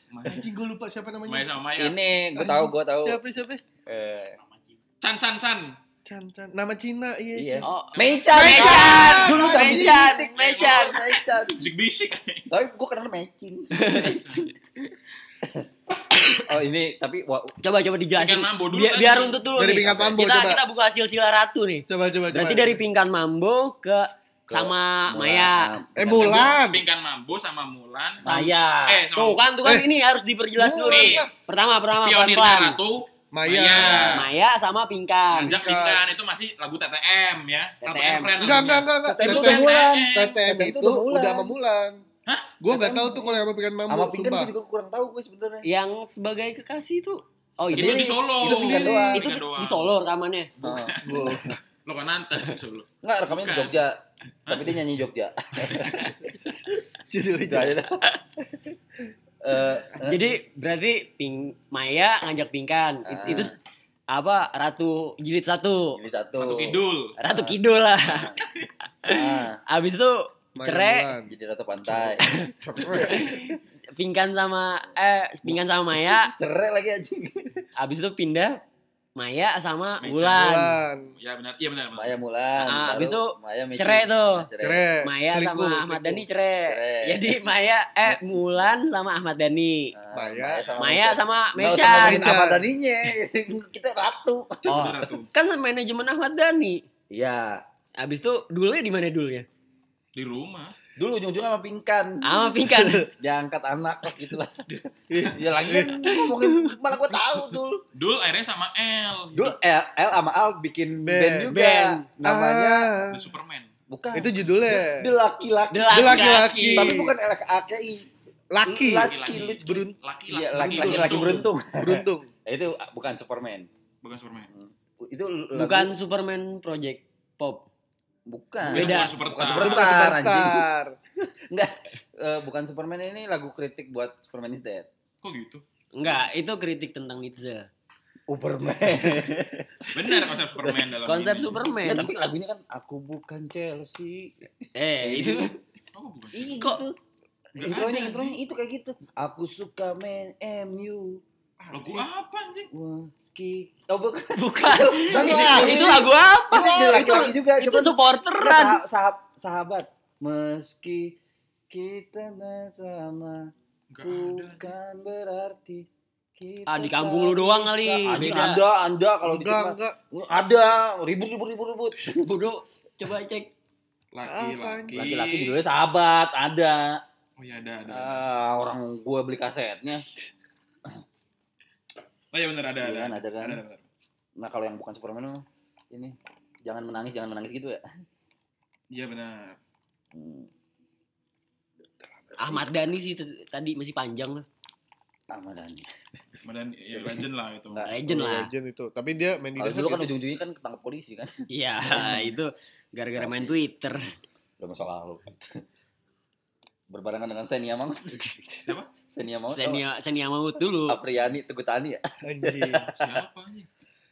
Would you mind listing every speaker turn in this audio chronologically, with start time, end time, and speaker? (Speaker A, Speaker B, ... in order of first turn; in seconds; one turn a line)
Speaker A: 0.1-0.5
Speaker B: 0.3-1.5
Speaker A: 1.2-2.0
Speaker C: 1.8-3.2
Speaker B: 2.3-3.6
Speaker C: 3.9-4.4
Speaker A: 5.0-5.8
Speaker B: 6.0-7.7
Speaker C: 7.3-11.7
Speaker D: 7.6-11.0
Speaker A: 7.8-12.5
Speaker B: 8.3-9.9
Speaker C: 12.5-14.4
Speaker A: 13.8-14.5
Speaker C: 15.4-17.6
Speaker D: 17.6-25.7
Speaker A: 18.1-19.5
Speaker B: 19.5-20.6
Speaker C: 19.8-20.1
Speaker B: 21.9-22.8
Speaker C: 24.5-26.5
Speaker B: 26.0-26.8
Speaker A: 26.2-28.2
Speaker C: 28.2-29.0
Speaker D: 28.2-28.5
Speaker A: 28.9-29.4
Speaker D: 29.1-32.8
Speaker B: 29.6-29.9
Speaker B: 30.6-31.3
Speaker A: 30.9-31.2
Speaker A: 32.0-34.3
Speaker B: 33.3-34.2
Speaker D: 34.0-35.6
Speaker A: 35.3-40.4
Speaker B: 35.4-36.1
Speaker D: 37.8-38.3
Speaker B: 38.4-42.0
Speaker C: 39.0-41.5
Speaker A: 42.2-42.5
Speaker B: 42.6-44.5
Speaker C: 42.7-45.7
Speaker D: 45.6-50.5
Speaker C: 47.7-49.2
Speaker A: 47.7-49.9
Speaker B: 48.5-49.1
Speaker A: 50.6-53.8
Speaker C: 50.6-51.4
Speaker B: 51.0-51.5
Speaker C: 53.0-56.2
Speaker A: 54.5-54.9
Speaker A: 55.7-56.1
Speaker B: 57.1-57.8
Speaker C: 57.5-58.6
Speaker C: 59.4-60.3
Speaker D: 60.1-63.5
Speaker C: 63.0-63.5
Speaker D: 64.1-66.0
Speaker C: 65.9-68.4
Speaker A: 66.4-67.2
Speaker D: 67.2-68.3
Speaker D: 68.8-71.1
Speaker C: 69.0-69.6
Speaker B: 70.5-71.3
Speaker C: 71.2-73.3
Speaker B: 71.9-73.3
Speaker D: 72.4-76.3
Speaker A: 73.1-73.5
Speaker C: 75.5-77.6
Speaker D: 77.8-78.6
Speaker D: 79.2-80.8
Speaker A: 80.0-80.6
Speaker B: 80.3-81.1
Speaker A: 81.2-82.2
Speaker C: 82.0-84.8
Speaker D: 82.6-84.5
Speaker B: 84.6-86.2
Speaker D: 85.0-89.9
Speaker C: 86.6-87.4
Speaker C: 89.9-95.1
Speaker B: 90.1-90.7
Speaker A: 90.6-90.9
Speaker D: 90.8-92.2
Speaker B: 91.7-92.6
Speaker A: 94.6-95.3
Speaker D: 95.3-96.8
Speaker C: 97.1-97.6
Speaker D: 98.0-99.5
Speaker A: 100.1-100.7
Speaker C: 101.0-107.8
Speaker D: 102.2-103.1
Speaker B: 105.1-106.0
Speaker A: 107.9-109.6
Speaker C: 109.3-112.9
Speaker B: 111.0-111.5
Speaker D: 111.5-112.1
Speaker B: 112.2-113.2
Speaker A: 113.1-113.7
Speaker C: 113.9-118.1
Speaker B: 114.1-115.1
Speaker D: 115.7-117.0
Speaker B: 115.9-117.1
Speaker B: 118.5-120.0
Speaker C: 118.7-119.6
Speaker A: 119.0-121.5
Speaker C: 120.3-123.7
Speaker B: 120.5-122.3
Speaker A: 124.0-124.5
Speaker C: 124.5-125.9
Speaker D: 125.5-127.7
Speaker C: 128.3-130.7
Speaker A: 128.6-130.0
Speaker D: 128.7-129.1
Speaker B: 129.4-130.9
Speaker C: 131.2-134.9
Speaker A: 135.2-135.6
Speaker D: 135.9-137.7
Speaker C: 138.3-145.5
Speaker A: 139.0-139.3
Speaker A: 139.9-141.6
Speaker D: 141.1-142.1
Speaker D: 144.7-145.5
Speaker A: 145.9-146.7
Speaker C: 146.3-146.9
Speaker D: 146.5-146.8
Speaker C: 147.5-151.2
Speaker A: 147.6-148.4
Speaker B: 151.6-152.1
Speaker A: 151.7-152.7
Speaker C: 152.7-161.2
Speaker D: 154.3-158.8
Speaker B: 155.1-156.0
Speaker C: 161.7-163.5
Speaker A: 163.9-164.7
Speaker C: 164.0-172.2
Speaker D: 166.7-168.6
Speaker B: 169.2-170.0
Speaker D: 172.2-173.5
Speaker A: 174.1-175.6
Speaker B: 174.3-175.0
Speaker C: 174.9-177.0
Speaker A: 177.4-178.2
Speaker C: 177.9-180.0
Speaker A: 182.3-183.8
Speaker C: 182.8-183.6
Speaker C: 184.4-187.8
Speaker A: 188.9-189.6
Speaker C: 190.1-190.5
Speaker B: 192.0-192.6
Speaker D: 192.4-194.4
Speaker C: 195.3-195.9
Speaker A: 196.4-197.9
Speaker C: 196.9-198.5
Speaker D: 197.8-198.5
Speaker B: 198.3-200.1
Speaker C: 199.6-202.3
Speaker D: 201.5-204.1
Speaker C: 203.2-203.4
Speaker C: 204.6-205.6
Speaker C: 206.9-209.8
Speaker D: 209.5-211.0
Speaker C: 210.8-213.0
Speaker B: 212.2-212.8
Speaker A: 212.9-213.7